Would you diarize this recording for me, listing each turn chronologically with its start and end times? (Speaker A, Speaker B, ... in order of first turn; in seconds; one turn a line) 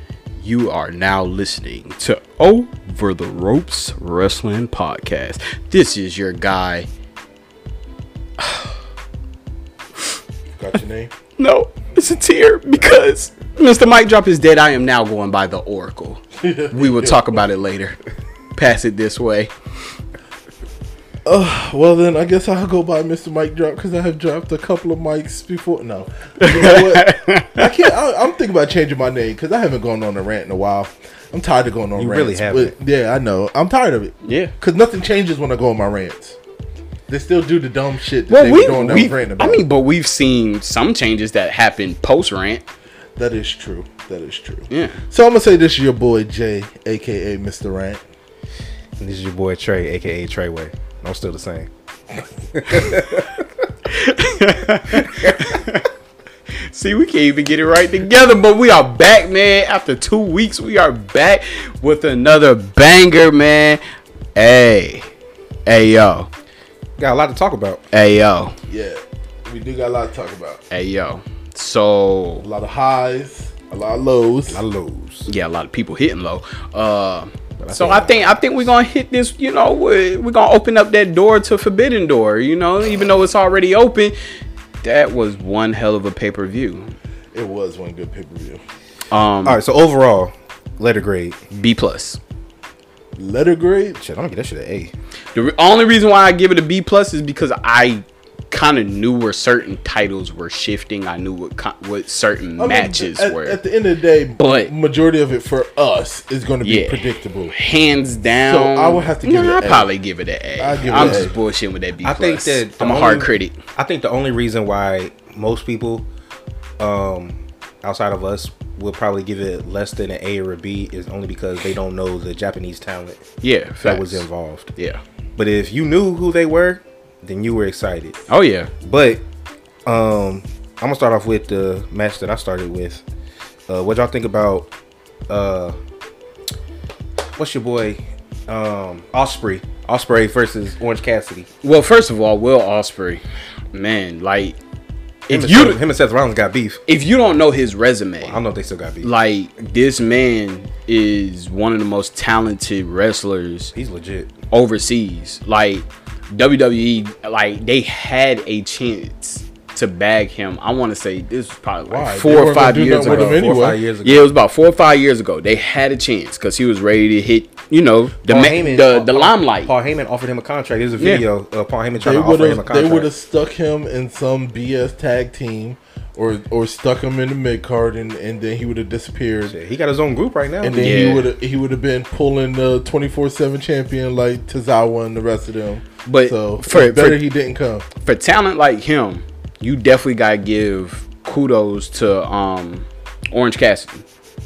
Speaker A: 0.4-6.9
Speaker A: 8.4-8.7
Speaker B: 10.6-11.1
Speaker A: 11.4-18.0
Speaker B: 16.4-17.4
Speaker A: 18.6-19.5
Speaker B: 21.2-36.4
Speaker A: 26.4-27.7
Speaker C: 31.9-32.7
Speaker A: 34.2-34.5
Speaker B: 37.1-39.6
Speaker A: 38.3-42.6
Speaker B: 43.2-48.0
Speaker A: 44.7-45.0
Speaker C: 49.0-51.7
Speaker C: 52.5-53.4
Speaker A: 53.8-55.9
Speaker C: 55.0-55.5
Speaker A: 56.7-63.8
Speaker A: 64.3-65.1
Speaker A: 65.7-66.3
Speaker C: 67.0-67.8
Speaker A: 67.9-68.5
Speaker B: 68.7-70.6
Speaker A: 70.7-72.5
Speaker B: 72.4-74.6
Speaker C: 74.5-75.3
Speaker A: 75.3-84.1
Speaker C: 77.6-78.4
Speaker A: 84.8-86.9
Speaker B: 87.3-88.6
Speaker A: 89.1-89.6
Speaker C: 89.4-91.4
Speaker A: 91.5-92.2
Speaker B: 93.2-94.0
Speaker C: 94.0-94.9
Speaker A: 95.3-103.6
Speaker B: 102.6-107.5
Speaker A: 104.4-104.7
Speaker A: 106.6-113.5
Speaker B: 108.3-109.9
Speaker B: 110.6-111.3
Speaker C: 110.9-111.3
Speaker C: 112.0-116.1
Speaker C: 116.8-123.2
Speaker A: 123.4-125.0
Speaker C: 123.8-124.7
Speaker C: 125.4-128.2
Speaker A: 128.3-128.7
Speaker C: 128.8-129.2
Speaker C: 129.8-133.0
Speaker C: 133.7-134.7
Speaker C: 135.3-135.8
Speaker C: 137.3-141.5
Speaker A: 141.6-144.6
Speaker A: 145.3-145.8
Speaker C: 145.3-146.8
Speaker A: 146.9-148.4
Speaker C: 148.2-149.1
Speaker A: 149.0-153.7
Speaker C: 153.7-154.3
Speaker A: 154.5-163.5
Speaker B: 161.8-163.8
Speaker C: 163.0-164.3
Speaker A: 164.0-169.7
Speaker C: 168.3-173.1
Speaker A: 171.0-171.2
Speaker B: 172.0-179.6
Speaker C: 179.5-181.0
Speaker B: 180.6-187.8
Speaker A: 180.8-181.3
Speaker A: 186.1-187.2
Speaker A: 188.0-194.0